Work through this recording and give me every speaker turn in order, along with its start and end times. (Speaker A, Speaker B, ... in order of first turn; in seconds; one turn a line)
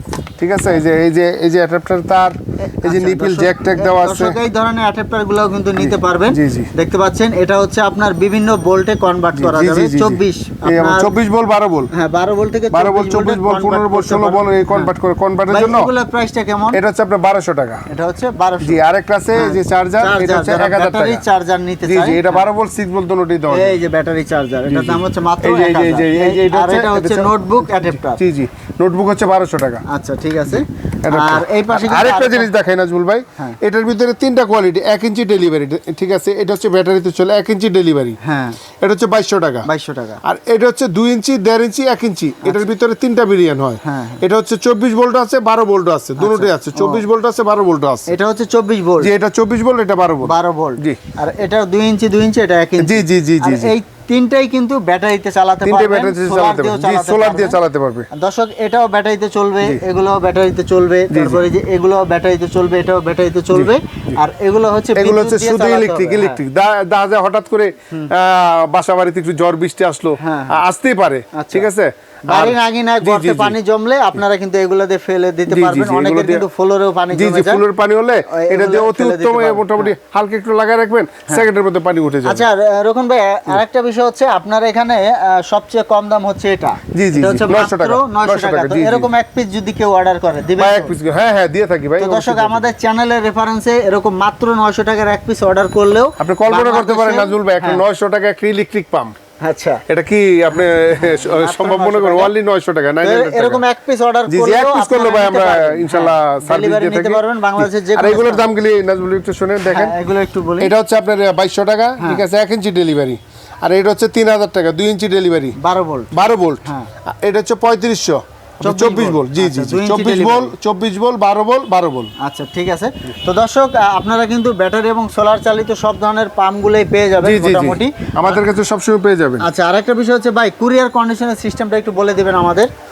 Speaker A: 0.4-4.4
Speaker B: 2.7-11.1
Speaker A: 5.8-6.7
Speaker A: 9.4-11.9
Speaker B: 11.9-14.9
Speaker A: 12.7-15.9
Speaker B: 15.5-16.8
Speaker A: 16.7-17.8
Speaker B: 17.9-18.8
Speaker A: 18.6-21.2
Speaker B: 19.3-22.5
Speaker A: 21.9-23.8
Speaker B: 23.5-28.2
Speaker A: 24.7-29.8
Speaker B: 29.9-32.5
Speaker A: 30.5-38.2
Speaker B: 38.2-38.6
Speaker A: 38.8-39.7
Speaker B: 39.7-40.2
Speaker A: 40.2-48.2
Speaker B: 43.8-44.2
Speaker B: 46.2-47.0
Speaker B: 48.1-49.1
Speaker A: 49.0-51.0
Speaker B: 50.2-57.6
Speaker A: 52.8-53.7
Speaker A: 55.6-58.1
Speaker B: 58.1-66.4
Speaker A: 61.1-61.4
Speaker A: 63.5-64.2
Speaker A: 64.9-73.6
Speaker B: 70.2-70.6
Speaker B: 71.3-71.7
Speaker B: 72.3-77.6
Speaker A: 75.5-76.4
Speaker A: 77.1-82.4
Speaker B: 78.3-79.9
Speaker B: 82.2-90.9
Speaker A: 86.9-89.1
Speaker A: 90.6-92.7
Speaker B: 92.0-97.8
Speaker A: 96.2-99.1
Speaker B: 99.4-99.8
Speaker A: 99.9-103.6
Speaker B: 100.5-102.3
Speaker B: 103.0-108.5
Speaker A: 104.3-109.9
Speaker B: 109.6-110.7
Speaker A: 110.6-115.6
Speaker B: 115.6-116.1
Speaker A: 116.1-122.1
Speaker B: 118.6-120.5
Speaker B: 122.2-128.4
Speaker A: 127.2-129.5
Speaker B: 129.4-132.7